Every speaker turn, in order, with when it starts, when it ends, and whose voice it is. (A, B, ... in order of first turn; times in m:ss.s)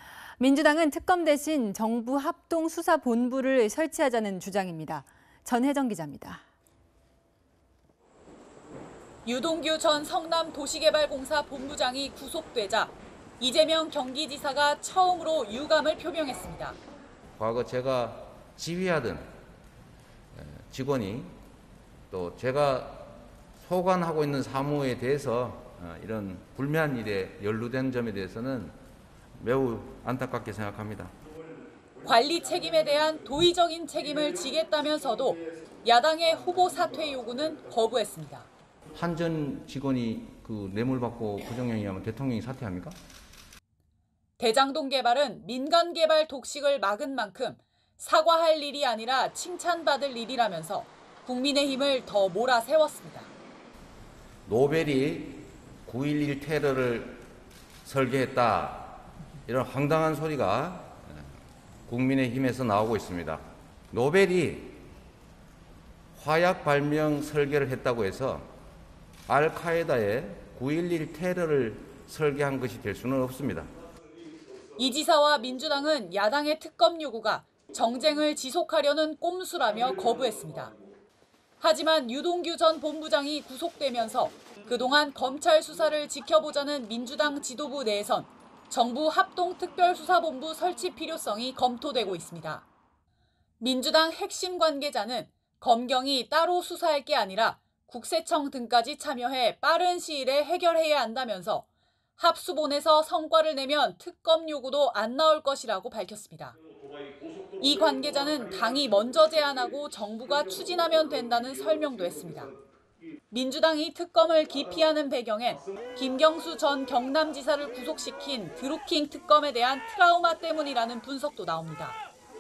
0:00.4-0:06.4 A
0:09.2-0:16.8 B
0:17.4-0:19.2 C
0:20.3-0:21.3 C
0:22.1-0:28.8 C
0:29.4-0:31.1 C
0:32.0-0:38.5 B
0:38.9-0:43.0 C
0:44.4-0:53.3 B
0:54.5-0:57.2 C
0:57.8-1:01.3 C
1:01.9-1:04.8 C
1:06.2-1:08.5 C
1:09.3-1:13.7 C
1:14.8-1:20.7 B
1:21.6-1:32.6 B
1:33.6-1:41.7 B
1:42.2-1:46.6 B
1:47.6-1:52.6 B
1:53.3-2:02.0 B